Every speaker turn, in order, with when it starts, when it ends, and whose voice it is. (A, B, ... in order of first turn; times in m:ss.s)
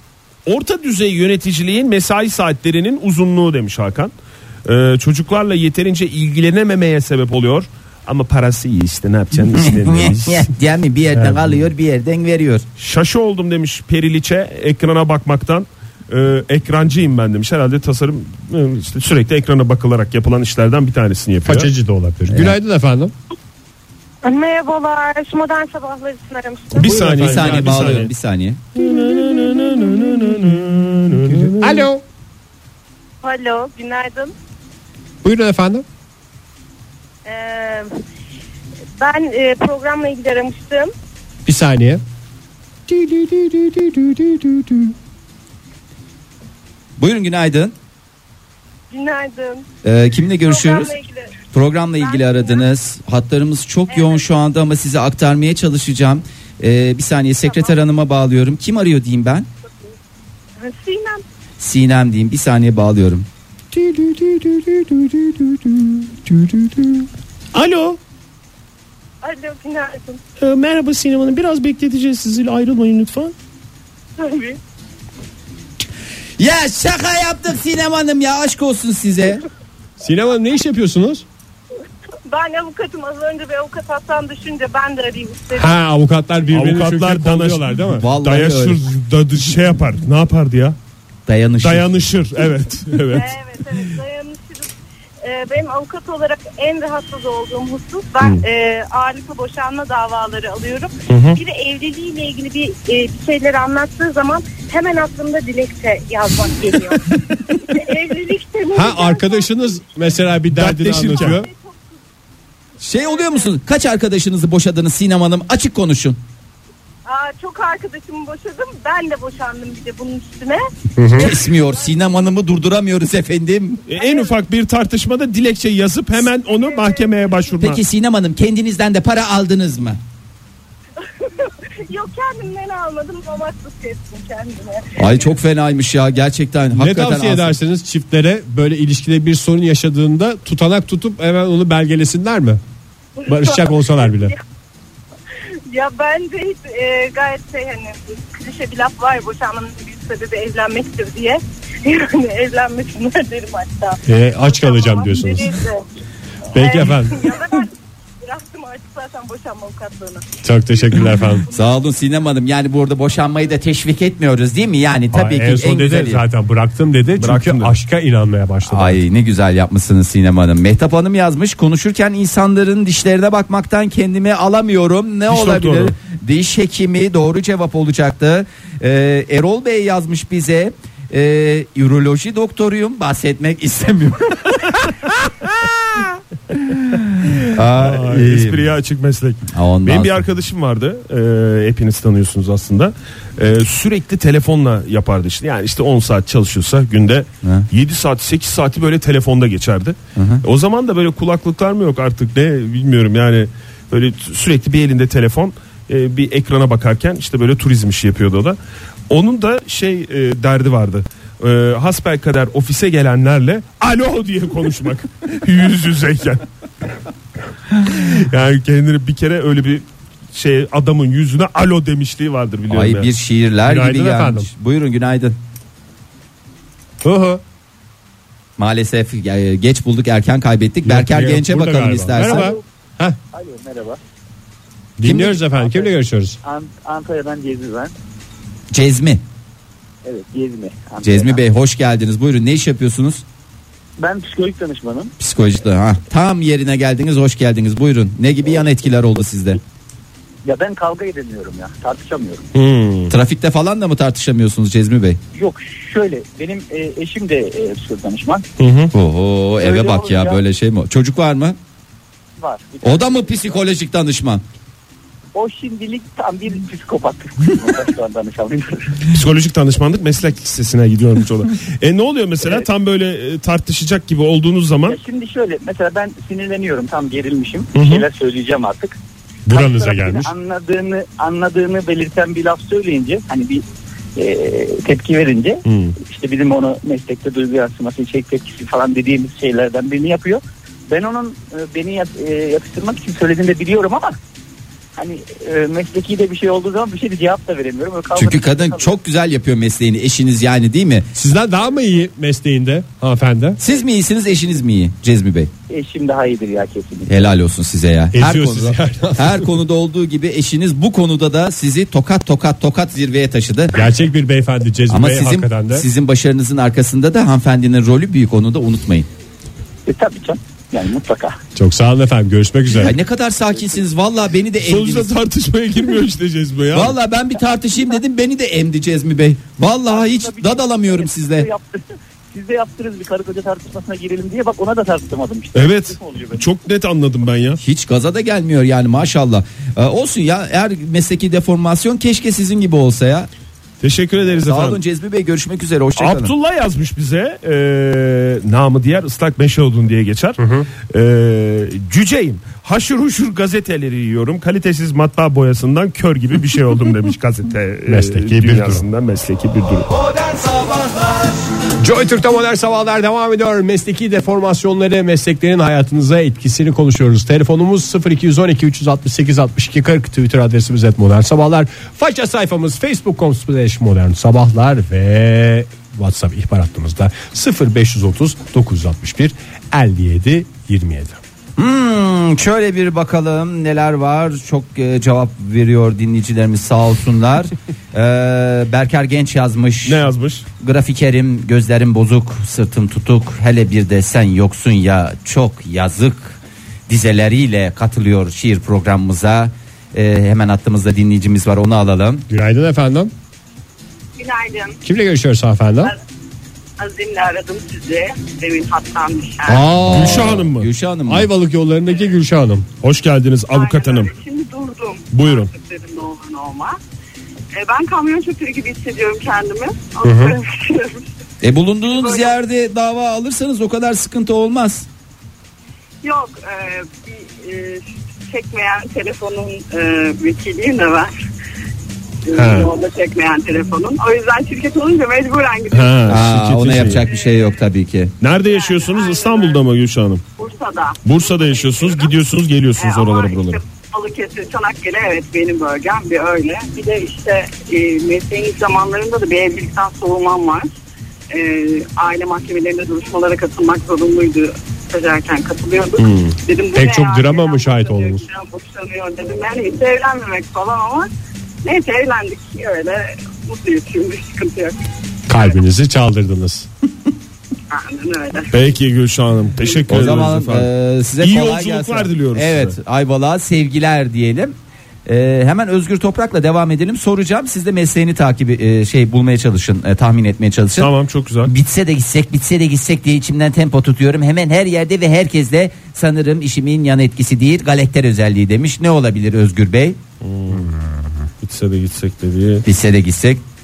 0:00.4-0:04.1 A
0:04.6-0:10.5 A
0:09.5-0:12.6 B
0:11.1-0:11.5 C
0:12.8-0:21.7 A
0:21.4-0:23.1 C
0:24.2-0:26.9 D
0:26.7-0:28.1 A
0:26.8-0:28.0 C
0:27.1-0:28.6 B
0:28.8-0:31.8 A
0:31.3-0:32.0 C
0:33.2-0:34.3 D
0:35.2-0:35.8 C
0:37.2-0:38.0 D
0:39.0-0:40.9 D
0:41.4-0:42.0 C
0:42.9-0:44.9 C
0:47.0-0:47.7 B
0:48.9-0:49.6 D
0:49.8-0:51.0 B
0:50.4-0:51.3 D
0:51.5-0:59.5 B
0:52.0-0:52.6 D
0:53.9-0:54.2 D
0:57.5-0:57.7 D
1:00.6-1:01.2 D
1:01.6-1:03.3 B
1:03.8-1:04.5 A
1:04.3-1:05.0 C
1:07.5-1:08.0 A
1:09.2-1:10.2 D
1:10.4-1:13.3 A
1:14.2-1:14.6 D
1:16.4-1:19.4 B
1:20.0-1:21.2 C
1:22.2-1:25.7 D
1:25.5-1:28.1 C
1:26.5-1:30.8 A
1:28.0-1:28.8 B
1:31.3-1:31.9 B
1:31.6-1:33.4 A
1:33.1-1:34.7 D
1:35.2-1:49.7 D
1:41.1-1:41.4 A
1:48.7-1:51.5 C
1:50.5-1:51.4 A
1:51.1-1:51.9 D
1:52.8-1:56.2 B
1:52.9-1:53.5 D
1:57.0-2:00.6 D
2:01.0-2:01.3 C
2:01.1-2:03.8 B
2:01.2-2:01.9 D
2:03.9-2:07.8 A
2:04.0-2:04.3 D
2:06.4-2:07.1 D
2:07.6-2:10.0 B
2:11.0-2:15.3 D
2:15.0-2:17.5 B
2:16.7-2:22.6 C
2:23.2-2:24.4 D
2:23.2-2:24.3 C
2:25.7-2:35.8 D
2:34.0-2:35.6 C
2:36.5-2:37.4 C
2:36.5-2:40.2 D
2:40.4-2:41.5 C
2:41.5-2:46.2 B
2:45.1-2:49.0 C
2:47.2-2:47.7 A
2:48.7-3:08.6 B
2:55.3-2:55.9 A
3:07.7-3:28.6 A
3:09.5-3:10.2 B
3:20.2-3:20.4 B
3:29.1-3:36.4 A
3:37.8-3:43.1 A
3:42.7-3:45.4 B
3:43.6-3:44.5 C
3:47.0-3:47.4 C
3:48.6-3:52.5 B
3:50.8-3:53.2 C
3:52.2-3:52.6 E
3:53.3-3:54.0 E
3:55.0-3:56.4 C
3:55.0-3:55.4 B
3:55.4-3:55.9 E
3:56.4-3:57.9 E
3:58.7-3:59.2 B
4:00.0-4:01.4 E
4:01.0-4:03.2 B
4:04.0-4:05.1 E
4:05.2-4:09.6 B
4:10.4-4:12.4 E
4:12.5-4:13.1 A
4:13.1-4:15.2 B
4:15.3-4:18.4 E
4:18.6-4:18.9 A
4:18.9-4:21.6 B
4:19.6-4:20.4 E
4:22.4-4:23.6 E
4:22.8-4:24.4 B
4:25.3-4:29.1 E
4:29.1-4:35.0 A
4:34.8-4:39.0 E
4:37.7-4:38.0 A
4:39.4-4:40.3 C
4:39.5-4:43.6 E
4:44.2-4:54.2 E
4:45.6-4:46.0 A
4:55.0-4:59.0 E
4:58.1-5:01.1 B
5:01.1-5:03.6 C
5:03.6-5:05.5 B
5:05.7-5:07.3 E
5:07.1-5:13.8 B
5:08.1-5:09.6 C
5:13.7-5:15.8 C
5:14.9-5:19.1 B
5:19.8-5:21.4 E
5:21.5-5:23.0 C
5:22.8-5:25.1 B
5:24.6-5:27.0 A
5:26.7-5:31.5 B
5:29.9-5:36.4 E
5:35.5-5:37.6 A
5:37.6-5:43.3 B
5:43.8-5:44.8 A
5:44.4-5:46.3 B
5:46.0-5:50.4 A
5:50.4-5:50.7 C
5:50.9-5:59.9 A
5:57.9-5:58.8 C
6:01.8-6:21.2 C
6:21.6-6:30.0 B
6:29.8-6:30.4 A
6:30.6-6:42.2 B
6:42.3-6:43.1 C
6:44.2-6:44.8 F
6:44.8-6:45.9 C
6:46.8-6:49.7 F
6:49.4-6:50.5 C
6:49.8-6:51.3 B
6:49.9-6:50.7 A
6:51.1-6:52.7 C
6:52.8-6:54.1 A
6:53.5-6:56.8 F
6:55.1-6:55.5 A
6:57.5-7:01.0 F
7:00.0-7:00.3 C
7:01.4-7:04.9 B
7:01.8-7:02.4 F
7:06.0-7:11.1 F
7:12.3-7:16.1 F
7:12.3-7:12.7 A
7:15.7-7:17.0 A
7:16.1-7:18.1 B
7:18.2-7:20.2 A
7:18.4-7:19.6 F
7:20.4-7:22.1 F
7:21.0-7:23.6 A
7:22.8-7:30.7 F
7:31.3-7:41.1 F
7:36.0-7:36.4 A
7:36.7-7:38.2 C
7:41.6-7:44.8 F
7:45.3-7:46.7 C
7:47.7-7:48.6 F
7:48.5-7:50.7 A
7:49.9-7:54.5 B
7:51.2-7:52.8 A
7:55.0-8:00.9 B
8:00.8-8:01.5 A
8:01.4-8:10.0 B
8:10.2-8:10.7 A
8:11.4-8:12.6 A
8:12.6-8:13.4 B